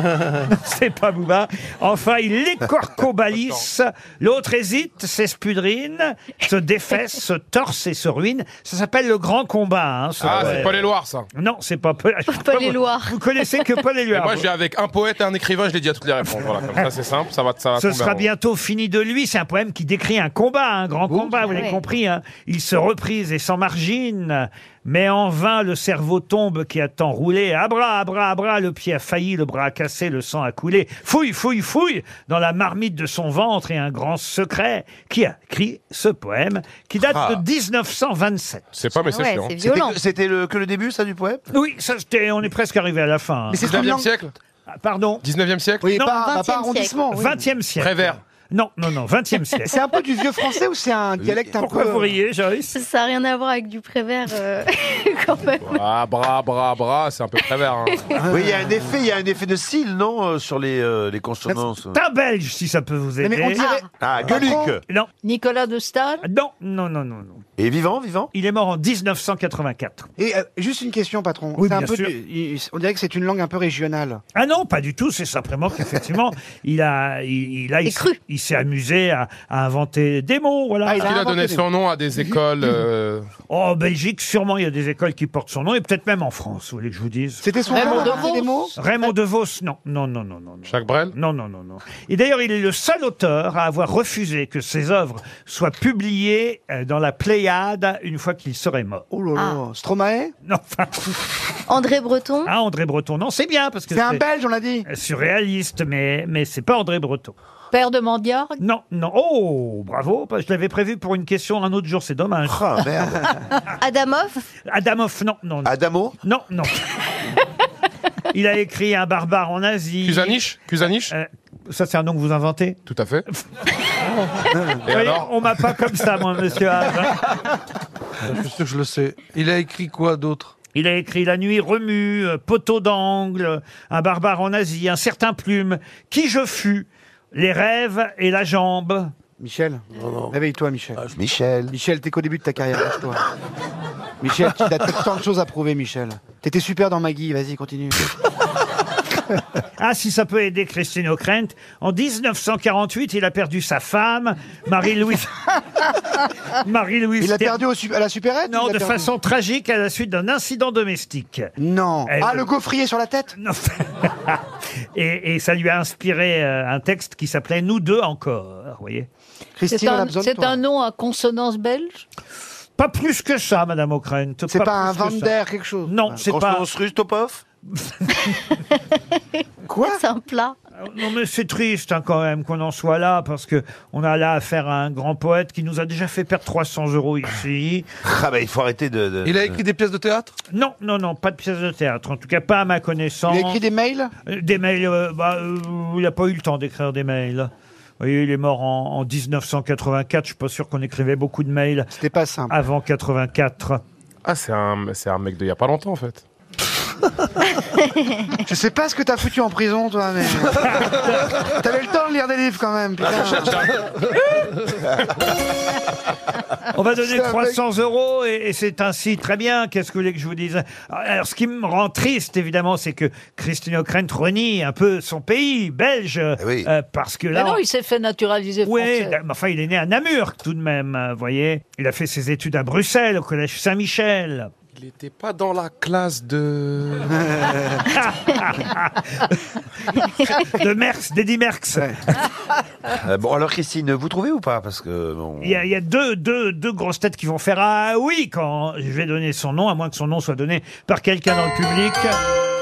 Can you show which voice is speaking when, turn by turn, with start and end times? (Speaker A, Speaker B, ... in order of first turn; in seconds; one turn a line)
Speaker A: 0.5-10.8
Speaker B: 10.2-11.2
Speaker C: 10.2-10.8
Speaker A: 11.3-14.5
Speaker D: 12.3-13.6
Speaker B: 14.1-18.3
Speaker A: 17.8-38.8
Speaker E: 21.1-21.4
Speaker D: 21.4-21.8
Speaker C: 37.0-37.4
Speaker B: 38.7-39.5
Speaker D: 39.0-40.0
Speaker C: 39.6-41.4
Speaker A: 41.5-43.6
Speaker E: 43.5-44.3
Speaker B: 43.6-44.3
Speaker A: 44.7-45.2
Speaker B: 45.2-45.8
Speaker E: 45.8-47.4
Speaker D: 46.0-47.3
Speaker A: 47.1-49.7
Speaker B: 47.8-48.2
Speaker E: 49.6-52.1
Speaker C: 51.2-51.5
Speaker A: 51.6-52.8
Speaker D: 52.7-55.8
Speaker B: 55.6-58.0
Speaker E: 58.2-59.0
Speaker C: 58.3-62.0
Speaker A: 61.9-63.6
Speaker E: 63.2-64.7
Speaker D: 63.6-63.9
Speaker C: 64.0-64.8
Speaker F: 65.2-66.2
Speaker A: 66.2-67.4
Speaker C: 67.6-68.3
Speaker A: 68.3-70.1
Speaker E: 70.2-74.2
Speaker A: 71.6-72.1
Speaker A: 74.3-81.2
Speaker D: 77.8-78.2
Speaker E: 80.8-81.7
Speaker B: 81.0-83.2
Speaker A: 83.5-87.4
Speaker E: 87.4-88.7
Speaker F: 87.7-88.6
Speaker A: 88.8-99.0
Speaker B: 90.7-91.1
Speaker E: 99.1-100.3
Speaker D: 99.3-99.6
Speaker A: 100.4-101.3
Speaker D: 101.7-102.5
Speaker A: 102.4-104.2
Speaker E: 103.9-104.9
Speaker A: 104.9-107.3
Speaker F: 107.7-108.6
Speaker A: 108.6-112.8
Speaker C: 112.4-113.4
Speaker D: 113.8-114.4
Speaker A: 114.7-116.8
Speaker C: 115.6-116.2
Speaker A: 118.3-120.4
Speaker B: 120.0-121.1
Speaker A: 121.1-122.8
Speaker B: 122.9-123.2
Speaker B: 124.8-125.3
Speaker A: 124.9-127.2
Speaker G: 128.2-130.5
Speaker A: 130.7-139.1
Speaker E: 139.4-141.0
Speaker G: 140.0-140.3
Speaker C: 141.1-141.7
Speaker E: 141.7-143.2
Speaker E: 144.2-148.1
Speaker A: 149.8-155.5
Speaker A: 156.6-157.6
Speaker E: 157.2-159.1
Speaker A: 158.5-161.5
Speaker E: 161.6-163.3
Speaker A: 162.1-162.5
Speaker A: 163.3-164.4
Speaker A: 164.9-169.1
Speaker E: 169.6-170.6
Speaker F: 169.7-172.0
Speaker A: 172.8-176.7
Speaker E: 174.5-176.2
Speaker C: 176.2-177.4
Speaker A: 177.8-178.2
Speaker E: 179.7-180.0
Speaker D: 179.9-180.6
Speaker A: 180.8-187.9
Speaker C: 188.0-189.6
Speaker G: 189.2-190.3
Speaker A: 190.5-193.6
Speaker E: 193.3-194.1
Speaker A: 194.2-201.9
Speaker E: 201.9-202.5
Speaker A: 202.5-203.8
Speaker B: 204.2-206.2
Speaker E: 208.4-213.7
Speaker A: 210.7-211.1
Speaker B: 213.1-213.8
Speaker A: 216.7-227.6
Speaker E: 217.0-217.6
Speaker C: 226.4-226.7
Speaker F: 227.3-229.2
Speaker A: 228.6-234.5
Speaker B: 234.7-237.3
Speaker E: 237.3-237.8
Speaker A: 237.9-242.2
Speaker C: 243.0-245.6
Speaker A: 245.4-252.2